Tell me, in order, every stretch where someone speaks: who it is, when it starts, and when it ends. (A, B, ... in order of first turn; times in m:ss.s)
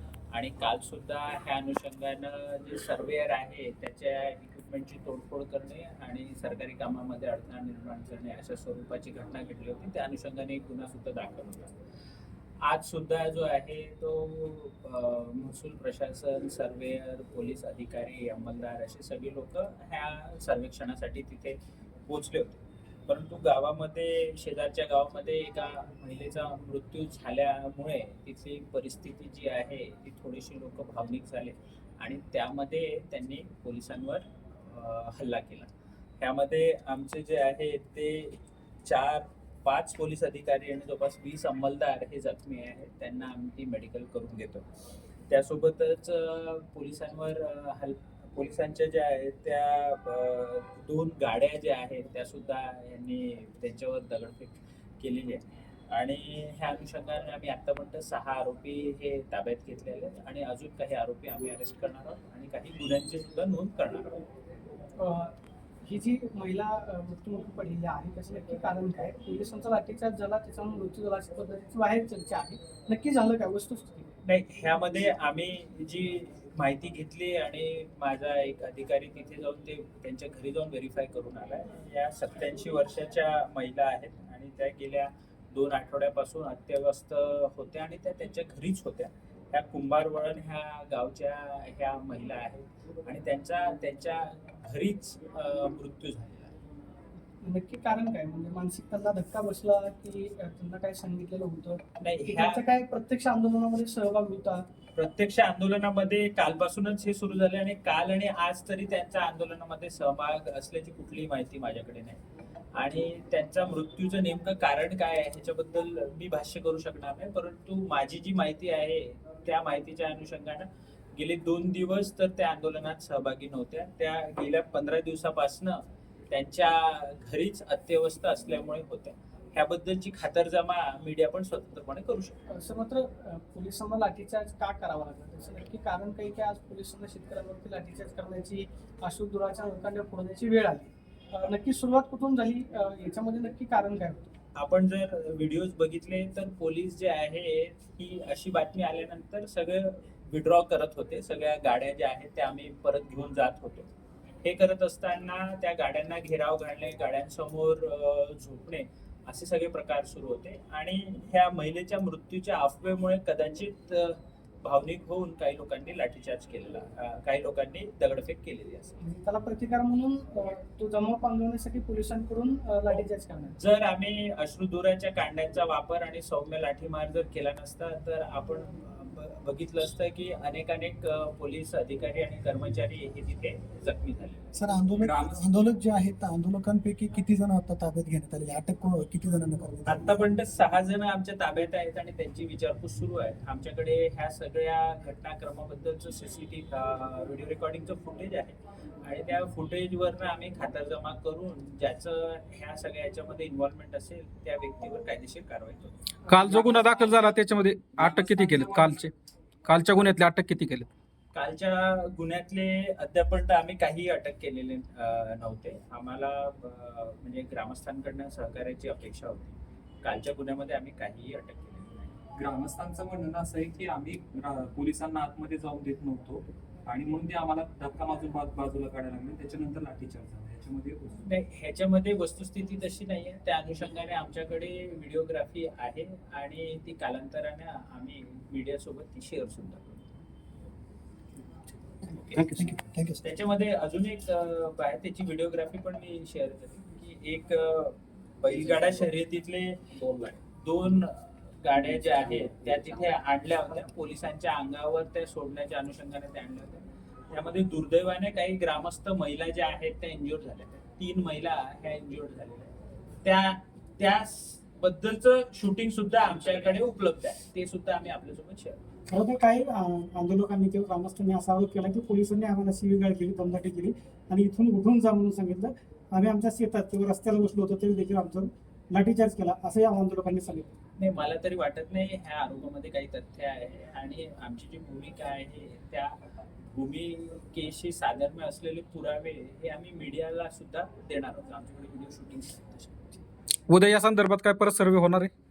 0:00.3-0:11.8 A
0:12.6-0:44.7 A
0:45.3-1:04.2 A
1:05.0-1:14.1 B
1:14.2-1:36.6 A
1:37.4-1:44.7 B
1:42.0-1:42.6 A
1:45.0-1:52.2 A
1:52.7-2:12.4 A
2:12.5-2:24.3 B
2:24.6-2:33.9 A
2:34.4-2:49.0 A
2:49.0-2:53.5 B
2:53.6-3:04.5 A
3:04.5-3:10.2 C
3:05.0-3:05.5 D
3:09.9-3:27.3 A
3:26.3-3:29.1 E
3:28.0-3:29.0 A
3:29.7-3:30.9 E
3:31.3-3:42.2 A
3:42.4-3:51.2 D
3:51.2-4:00.1 A
4:02.1-4:09.9 A
4:02.3-4:03.2 C
4:10.0-4:10.3 D
4:10.5-4:28.8 A
4:29.1-4:40.7 F
4:41.0-4:53.2 A
4:53.7-4:55.3 E